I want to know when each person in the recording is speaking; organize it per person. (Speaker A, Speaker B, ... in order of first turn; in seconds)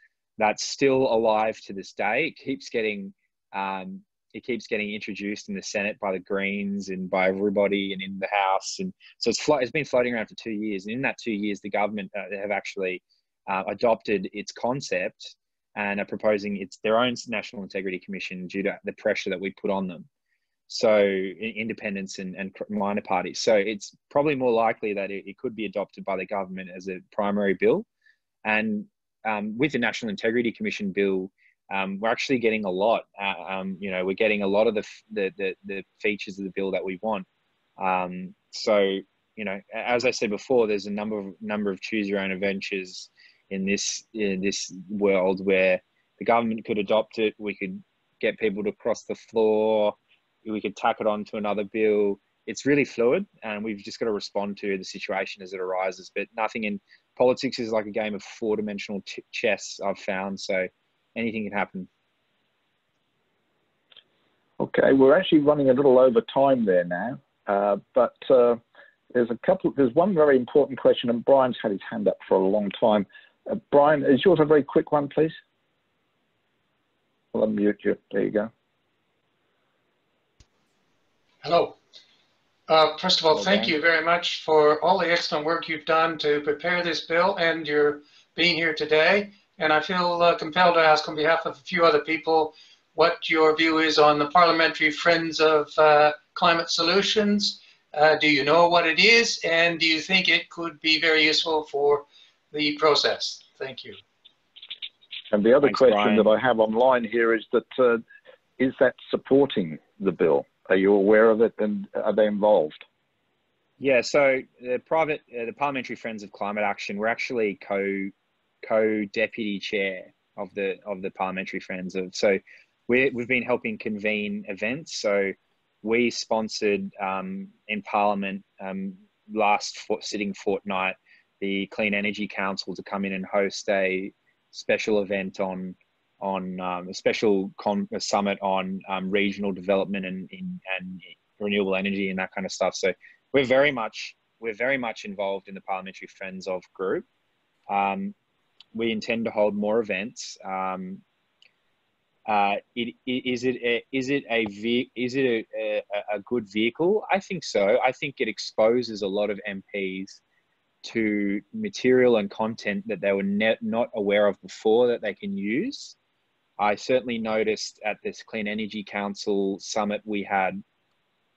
Speaker A: 0.4-20.1, 20.7-27.9, 28.4-37.3, 37.8-61.9, 83.3-83.7, 105.6-106.3, 113.8-147.1, 147.7-148.1, 148.8-151.0, 152.3-160.2, 160.8-166.0, 166.6-170.6
Speaker B: 64.6-68.6, 69.1-75.4, 77.3-78.5, 105.3-108.0, 108.6-112.8
Speaker C: 81.4-81.8, 82.7-104.0